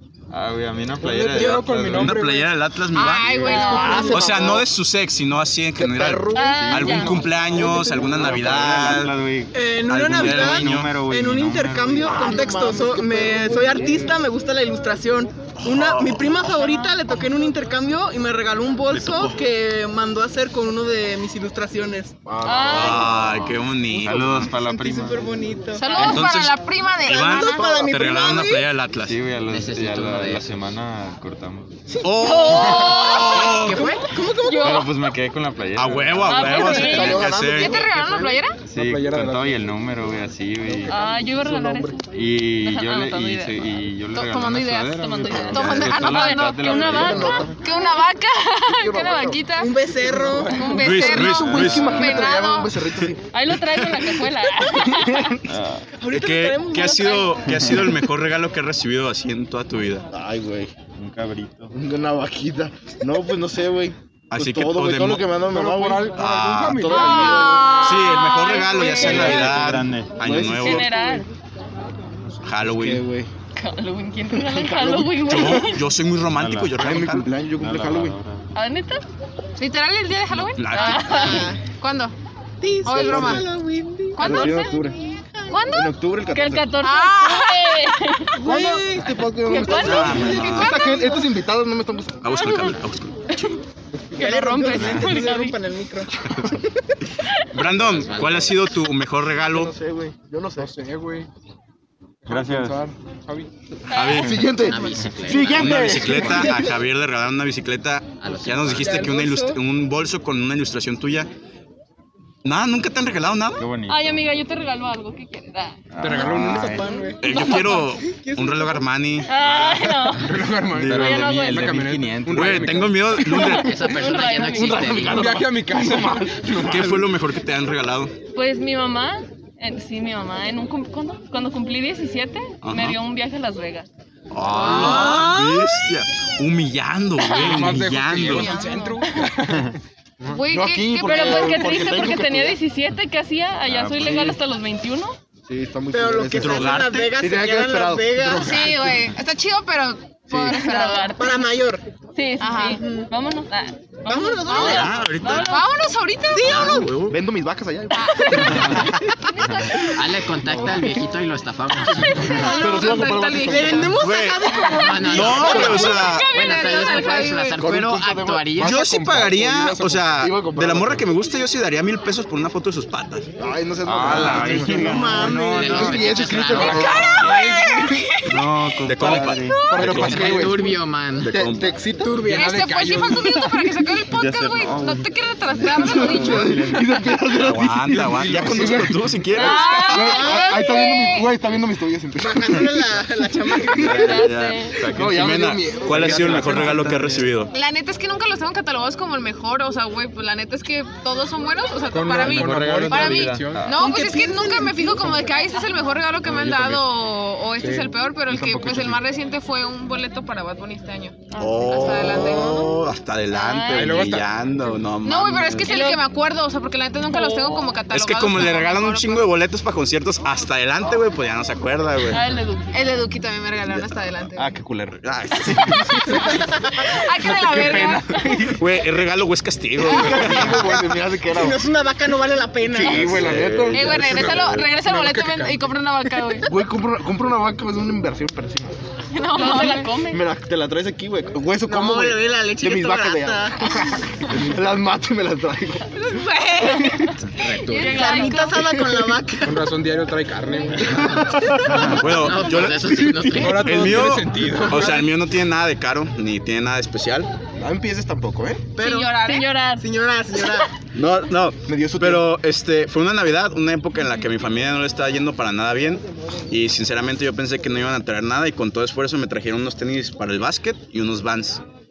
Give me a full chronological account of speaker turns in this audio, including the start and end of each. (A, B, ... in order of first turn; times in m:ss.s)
0:00.3-0:02.2 A
0:01.0-0:02.2 B
0:01.0-0:02.4 C
0:01.8-0:09.2 D
0:02.9-0:04.3 E
0:03.4-0:04.7 B
0:05.8-0:07.1 B
0:06.3-0:07.2 F
0:06.6-0:12.2 A
0:07.6-0:08.1 B
0:09.5-0:22.2 G
0:09.9-0:11.0 D
0:12.1-0:12.4 D
0:12.1-0:14.1 B
0:15.6-0:16.7 D
0:18.9-0:19.4 D
0:22.2-0:23.4 B
0:22.4-0:23.3 F
0:22.6-0:24.5 D
0:24.0-0:25.3 A
0:24.5-0:26.2 G
0:25.8-0:27.7 E
0:25.8-0:26.3 F
0:26.0-0:29.2 D
0:27.0-0:28.6 G
0:27.7-0:28.0 B
0:29.0-0:31.8 A
0:29.5-0:30.5 H
0:31.9-0:32.2 B
0:32.0-0:33.8 D
0:32.2-0:33.6 F
0:33.3-0:34.0 H
0:33.6-0:34.9 G
0:34.4-0:34.9 F
0:34.5-0:36.5 A
0:35.8-0:37.8 D
0:36.3-0:37.4 F
0:36.4-0:38.4 B
0:36.5-0:38.6 E
0:38.6-0:40.9 A
0:38.7-0:39.7 C
0:40.6-0:42.0 B
0:40.9-0:43.6 F
0:42.1-0:47.5 A
0:44.1-0:49.7 E
0:45.0-0:48.0 F
0:46.7-0:47.6 B
0:48.8-0:49.5 B
0:48.8-0:49.1 F
0:49.6-0:50.6 G
0:50.0-0:53.2 B
0:50.4-0:52.8 E
0:50.7-0:52.3 D
0:51.6-0:52.0 A
0:53.3-0:55.4 F
0:53.7-0:54.1 D
0:55.5-0:55.9 A
0:56.0-0:57.8 G
0:56.1-1:00.1 D
1:00.1-1:00.7 B
1:00.9-1:01.7 A
1:01.7-1:07.8 B
1:04.3-1:05.4 D
1:05.4-1:07.6 C
1:06.1-1:10.9 D
1:07.0-1:08.6 E
1:07.5-1:09.4 F
1:08.6-1:11.2 B
1:09.0-1:10.2 A
1:10.3-1:11.3 F
1:12.4-1:13.0 D
1:12.6-1:13.3 B
1:13.6-1:15.8 F
1:14.3-1:15.6 B
1:15.2-1:17.3 D
1:16.2-1:16.9 A
1:16.8-1:18.2 B
1:17.6-1:18.5 A
1:18.5-1:19.0 F
1:19.6-1:22.1 E
1:20.5-1:21.3 D
1:20.6-1:21.5 F
1:20.8-1:21.6 G
1:22.6-1:25.6 G
1:22.8-1:23.5 E
1:22.9-1:23.4 B
1:24.1-1:24.9 E
1:24.2-1:25.0 B
1:25.5-1:25.9 E
1:25.7-1:26.8 B
1:26.3-1:28.3 F
1:26.8-1:28.0 E
1:28.4-1:29.1 G
1:28.4-1:32.3 B
1:29.4-1:30.8 F
1:29.7-1:30.8 D
1:30.2-1:31.2 G
1:30.3-1:31.2 E
1:32.2-1:33.5 D
1:32.3-1:32.7 F
1:34.1-1:35.6 F
1:34.1-1:36.1 G
1:34.7-1:35.3 A
1:37.3-1:37.6 F
1:37.5-1:39.7 D
1:37.8-1:38.6 H
1:39.4-1:40.7 B
1:40.6-1:41.3 C
1:42.2-1:43.5 C
1:42.3-1:42.9 A
1:43.9-1:44.4 D
1:43.9-1:44.6 F
1:44.1-1:46.7 B
1:44.5-1:46.5 H
1:45.5-1:51.3 D
1:48.2-1:49.1 H
1:48.8-1:49.6 G
1:52.4-1:53.6 D
1:53.6-1:54.2 A
1:53.9-1:55.8 F
1:55.9-1:57.1 A
1:56.0-1:56.8 C
1:56.1-1:58.8 G
1:57.2-2:00.0 D
1:57.2-1:57.8 F
1:59.2-2:01.8 F
2:00.2-2:03.1 C
2:00.6-2:01.3 D
2:00.8-2:02.9 A
2:02.3-2:03.9 D
2:03.2-2:05.1 F
2:03.5-2:05.5 H
2:04.5-2:07.0 B
2:05.0-2:07.1 C
2:06.6-2:08.1 D
2:08.3-2:13.9 F
2:12.6-2:13.0 D
2:14.3-2:18.5 D
2:14.6-2:15.5 G
2:14.6-2:15.0 C
2:14.7-2:15.3 E
2:17.2-2:17.7 F
2:17.4-2:20.4 C
2:18.2-2:19.3 F
2:18.2-2:18.9 E
2:20.3-2:22.1 E
2:20.5-2:22.6 B
2:21.0-2:25.2 F
2:23.6-2:24.4 A
2:24.0-2:24.4 B
2:25.5-2:28.2 B
2:25.9-2:28.6 G
2:26.4-2:27.1 D
2:28.2-2:29.0 C
2:28.3-2:31.2 E
2:30.3-2:30.5 B
2:30.4-2:31.4 F
2:31.2-2:31.8 G
2:32.1-2:35.6 F
2:32.4-2:32.8 E
2:32.6-2:33.1 G
2:34.0-2:35.5 G
2:34.5-2:35.6 D
2:34.5-2:36.8 E
2:36.3-2:37.1 G
2:36.4-2:37.2 D
2:36.6-2:39.1 B
2:37.9-2:39.6 E
2:38.2-2:38.8 F
2:39.4-2:39.8 F
2:39.8-2:42.3 H
2:40.3-2:41.0 B
2:42.0-2:43.8 E
2:42.3-2:43.9 B
2:42.5-2:45.8 G
2:43.9-2:46.3 D
2:44.8-2:48.8 H
2:45.1-2:47.6 E
2:45.4-2:47.4 F
2:45.6-2:46.1 B
2:47.6-2:51.0 B
2:48.5-2:49.4 C
2:48.6-2:53.3 D
2:53.4-2:57.1 B
2:53.8-2:56.5 A
2:54.0-2:55.0 C
2:54.7-2:56.3 G
2:55.5-2:57.0 H
2:56.4-2:58.0 C
2:56.6-2:57.5 D
2:56.6-2:58.8 E
2:58.3-3:00.2 A
2:58.8-3:00.6 D
2:59.0-3:00.8 C
2:59.4-2:59.9 E
2:59.9-3:01.3 H
3:01.2-3:01.7 D
3:01.3-3:02.2 B
3:02.0-3:02.6 G
3:02.2-3:03.6 C
3:02.3-3:06.5 E
3:04.1-3:07.3 A
3:05.8-3:09.1 B
3:07.4-3:10.3 D
3:07.9-3:08.9 C
3:09.3-3:11.3 E
3:09.8-3:17.3 B
3:12.2-3:14.1 G
3:13.9-3:14.2 A
3:13.9-3:14.8 F
3:14.0-3:17.5 D
3:14.8-3:15.3 A
3:15.8-3:17.2 C
3:16.4-3:17.0 A
3:17.5-3:32.8 E
3:21.9-3:23.7 C
3:22.1-3:23.8 A
3:23.7-3:25.1 G
3:26.2-3:26.8 A
3:27.6-3:29.0 C
3:31.3-3:32.2 F
3:31.4-3:35.7 D
3:32.2-3:32.7 G
3:33.3-3:34.1 F
3:33.7-3:34.3 C
3:35.0-3:39.3 E
3:35.6-3:36.0 F
3:37.1-3:37.8 F
3:37.9-3:42.2 D
3:42.1-3:42.7 F
3:42.7-3:44.5 E
3:43.7-3:45.0 B
3:45.0-3:46.0 D
3:45.5-3:48.3 F
3:46.9-3:48.5 E
3:47.4-3:48.6 B
3:47.5-3:48.3 C
3:48.5-3:50.8 D
3:49.8-3:51.7 B
3:51.3-3:53.1 G
3:52.7-3:54.4 B
3:52.9-3:55.7 C
3:52.9-3:53.7 D
3:53.1-3:54.5 A
3:53.7-3:56.5 E
3:56.4-3:58.8 B
3:59.1-4:00.0 E
3:59.3-4:00.2 F
4:00.1-4:05.9 B
4:01.7-4:04.3 G
4:05.9-4:08.6 E
4:07.1-4:08.7 F
4:07.4-4:08.0 H
4:07.7-4:09.6 G
4:09.4-4:11.8 C
4:11.7-4:17.3 D
4:12.0-4:14.1 H
4:13.4-4:15.1 C
4:17.6-4:18.7 B
4:18.8-4:20.7 G
4:18.8-4:19.5 E
4:19.2-4:20.7 F
4:20.9-4:31.6 D
4:21.6-4:22.3 B